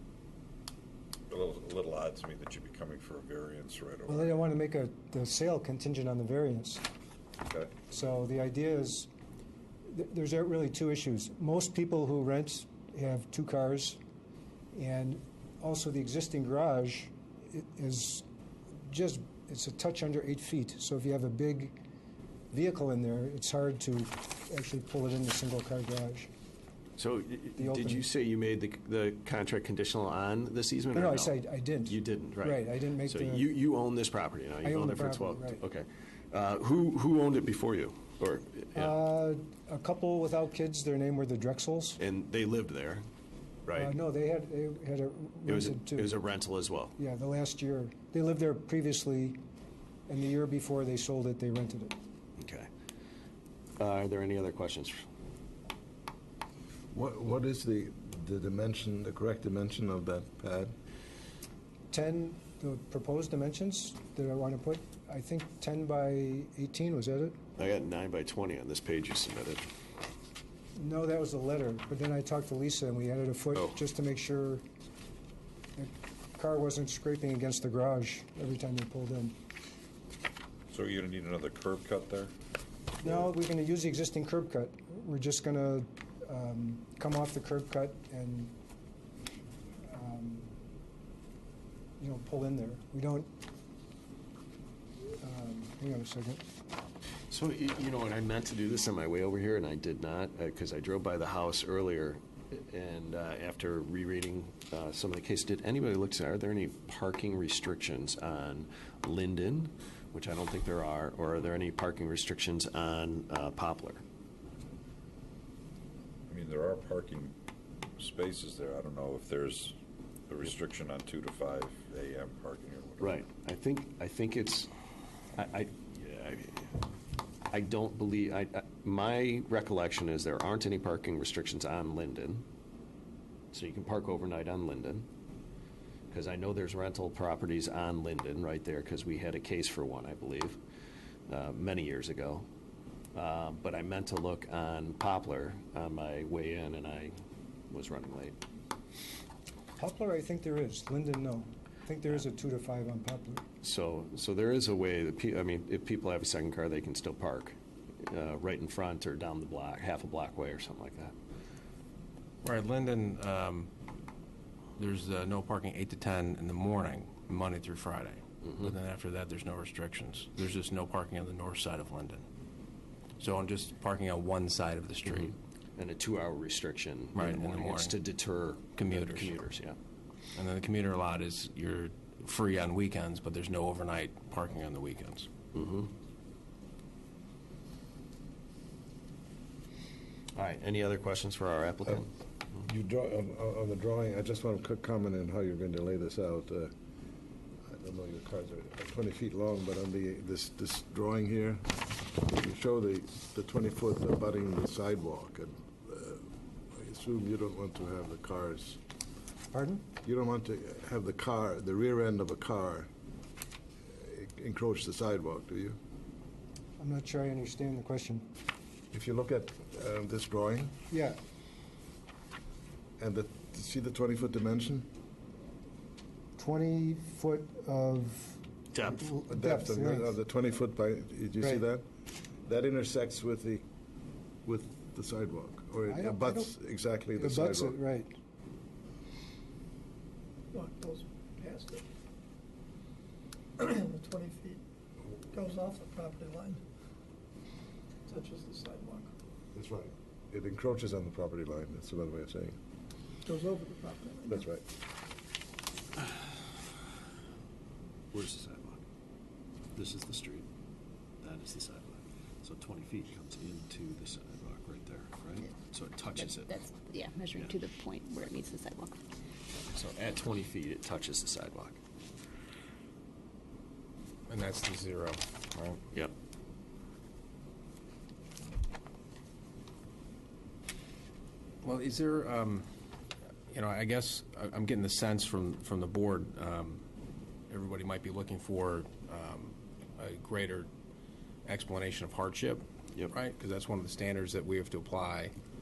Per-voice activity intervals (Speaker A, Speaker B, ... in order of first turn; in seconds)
Speaker A: 1.3-4.4, 7.4-7.7, 80.7-82.3, 116.3-117.3, 118.0-119.7, 120.3-123.2
Speaker B: 4.1-6.8, 7.9-9.1, 9.9-14.0, 14.7-18.2, 18.8-21.8, 22.5-26.3, 27.6-28.0, 30.9-33.5, 34.6-35.6, 38.7-42.0, 43.7-46.1, 47.0-49.4, 50.1-52.0, 61.9-67.4, 70.7-74.6, 75.8-79.3, 83.0-88.6, 89.8-90.5, 92.0-93.3, 95.2-96.4, 149.8-153.4, 209.5-209.9, 216.8-218.3, 220.9-221.2, 226.4-228.4, 228.9-230.1, 235.9-236.5, 237.2-238.2
Speaker C: 27.0-38.9, 42.0-43.0, 43.6-43.9, 45.5-46.9, 52.4-52.7, 53.8-55.0, 67.6-69.6, 97.3-114.0, 123.0-124.7, 125.3-126.7, 127.5-132.4, 133.5-135.1, 136.1-140.6, 141.3-142.5, 143.1-147.1, 147.7-148.3, 153.6-161.1, 175.1-179.8, 185.5-185.9, 190.3-192.1, 228.7-229.1, 258.1-258.8, 259.7-260.4, 261.2-266.7, 269.6-271.8
Speaker D: 56.9-60.7, 192.6-196.7, 197.6-208.8, 210.0-212.9, 213.9-215.8, 218.9-220.8, 223.0-224.9, 229.2-231.9, 232.4-233.6, 234.4-237.8, 249.5-252.6, 254.3-254.6
Speaker E: 162.4-163.7, 164.8-172.2, 173.2-175.3, 177.1-177.9, 178.8-179.4, 180.3-185.3, 274.3-275.8, 281.6-282.6, 283.5-286.8, 287.5-290.7, 291.4-295.3
Speaker F: 240.5-241.8, 243.6-244.6, 245.3-246.6, 248.1-249.1, 253.2-254.4
Speaker G: 266.5-269.0